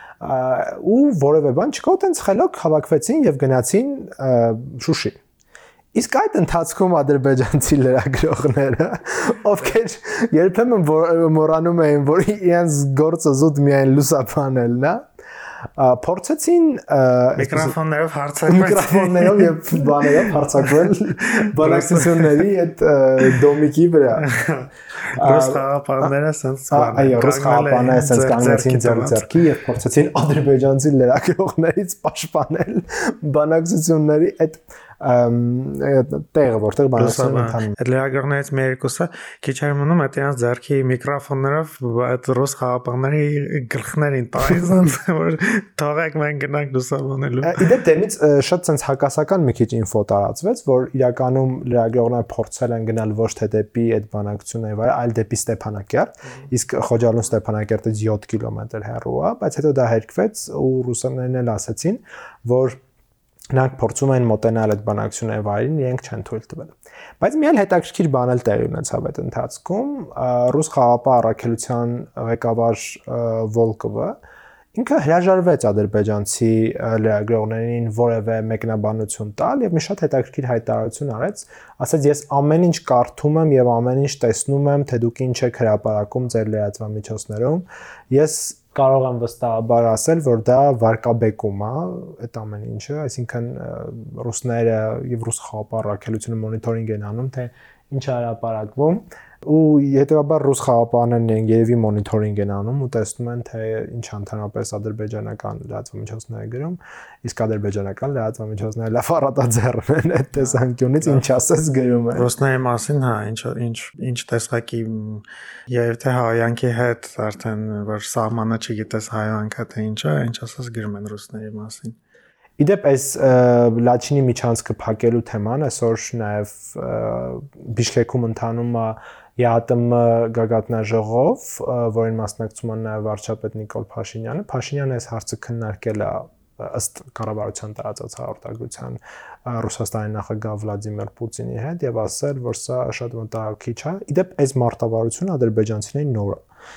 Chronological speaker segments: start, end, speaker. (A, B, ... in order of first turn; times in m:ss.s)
0:00.2-0:05.2 A
0:05.9-0:15.0 A
0:15.8-0:17.8 A
0:17.4-0:20.8 B
0:18.5-0:24.2 A
0:21.6-0:22.4 B
0:24.2-0:29.3 B
0:25.2-0:26.1 A
0:26.7-0:37.7 A
0:37.0-0:47.7 B
0:47.4-1:02.8 A
1:03.5-1:14.2 A
1:14.7-1:52.3 A
1:50.5-1:51.2 B
1:52.1-2:02.0 B
2:02.6-2:26.4 A